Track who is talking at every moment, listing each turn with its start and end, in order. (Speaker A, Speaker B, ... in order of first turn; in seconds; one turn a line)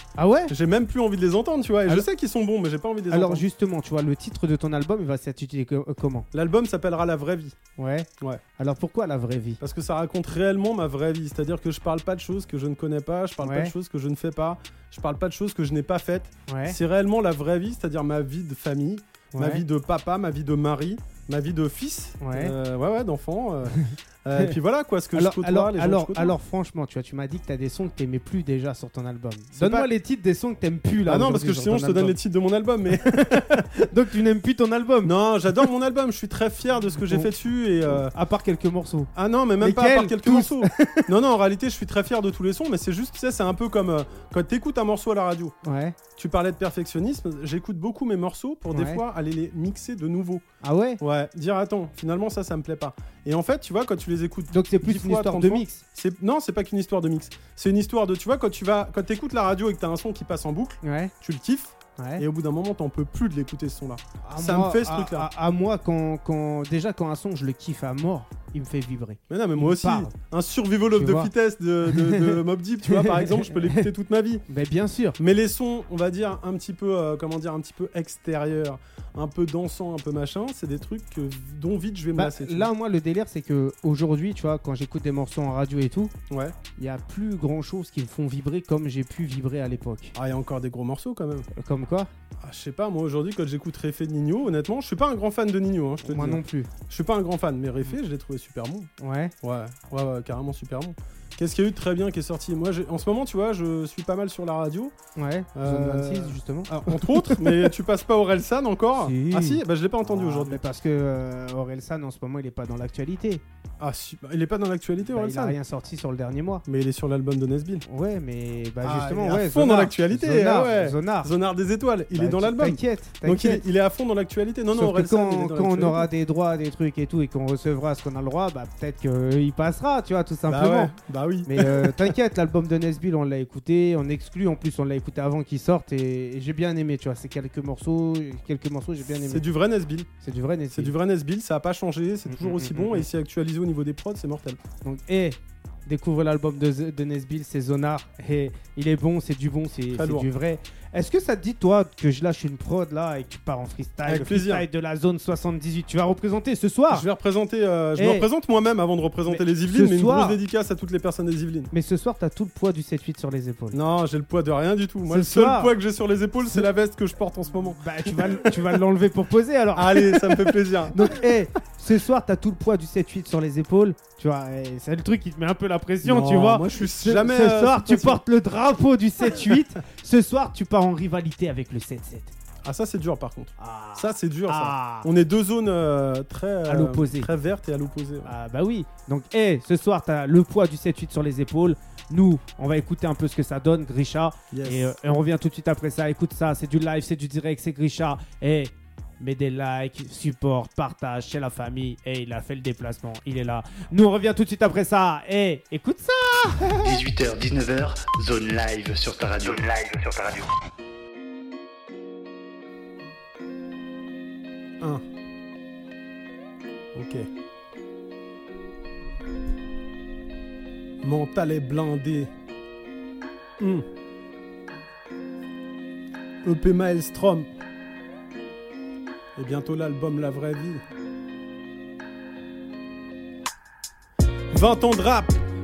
Speaker A: 0.2-0.5
Speaker B: 0.5-3.4
Speaker A: 3.1-6.2
Speaker B: 6.3-7.5
Speaker A: 7.8-9.6
Speaker B: 9.6-26.3
Speaker A: 13.4-13.7
Speaker A: 16.5-16.8
Speaker A: 19.3-19.6
Speaker A: 22.2-22.5
Speaker A: 23.7-24.5
Speaker A: 25.1-32.1
Speaker B: 29.6-29.9
Speaker B: 31.1-33.6
Speaker A: 32.9-35.1
Speaker B: 35.0-38.1
Speaker A: 37.9-41.1
Speaker B: 39.1-45.5
Speaker A: 45.6-46.0
Speaker B: 46.1-50.4
Speaker A: 48.7-49.0
Speaker A: 50.6-51.0
Speaker B: 51.0-65.3
Speaker A: 54.5-55.8
Speaker A: 60.8-61.1
Speaker A: 62.0-62.2
Speaker A: 64.2-70.1
Speaker B: 69.3-74.5
Speaker A: 70.9-71.3
Speaker A: 71.9-73.8
Speaker A: 74.5-75.2
Speaker B: 75.2-82.7
Speaker A: 82.1-86.1
Speaker B: 86.3-86.5
Speaker A: 86.8-90.1
Speaker B: 90.2-91.5
Speaker A: 91.5-92.1
Speaker B: 92.4-98.9
Speaker A: 96.0-96.7
Speaker A: 99.0-99.3
Speaker B: 99.4-104.9
Speaker A: 105.2-107.7
Speaker B: 105.5-110.6
Speaker A: 109.0-113.4
Speaker B: 113.8-115.6
Speaker A: 115.1-116.6
Speaker B: 116.7-117.8
Speaker A: 117.9-121.3
Speaker B: 118.8-126.1
Speaker A: 122.1-123.6
Speaker A: 124.7-130.9
Speaker B: 130.5-132.1
Speaker A: 131.4-139.4
Speaker B: 139.2-140.1
Speaker A: 140.2-140.9
Speaker B: 140.7-144.6
Speaker A: 142.3-143.0
Speaker A: 144.8-157.0
Speaker B: 149.9-150.3
Speaker B: 154.1-154.7
Speaker B: 156.9-161.7
Speaker A: 158.0-158.3
Speaker A: 159.3-160.4
Speaker A: 161.7-163.8
Speaker B: 163.7-168.6
Speaker A: 165.1-165.7
Speaker A: 167.8-182.3
Speaker B: 169.7-171.1
Speaker B: 176.0-178.2
Speaker B: 182.6-188.3
Speaker A: 183.6-185.1
Speaker A: 186.7-187.3
Speaker A: 188.2-207.0
Speaker B: 194.5-194.9
Speaker C: 206.8-210.5
Speaker B: 216.9-217.3
Speaker B: 221.0-222.3
Speaker B: 223.6-223.8
Speaker B: 226.4-227.5
Speaker B: 229.4-230.8
Speaker B: 234.5-235.4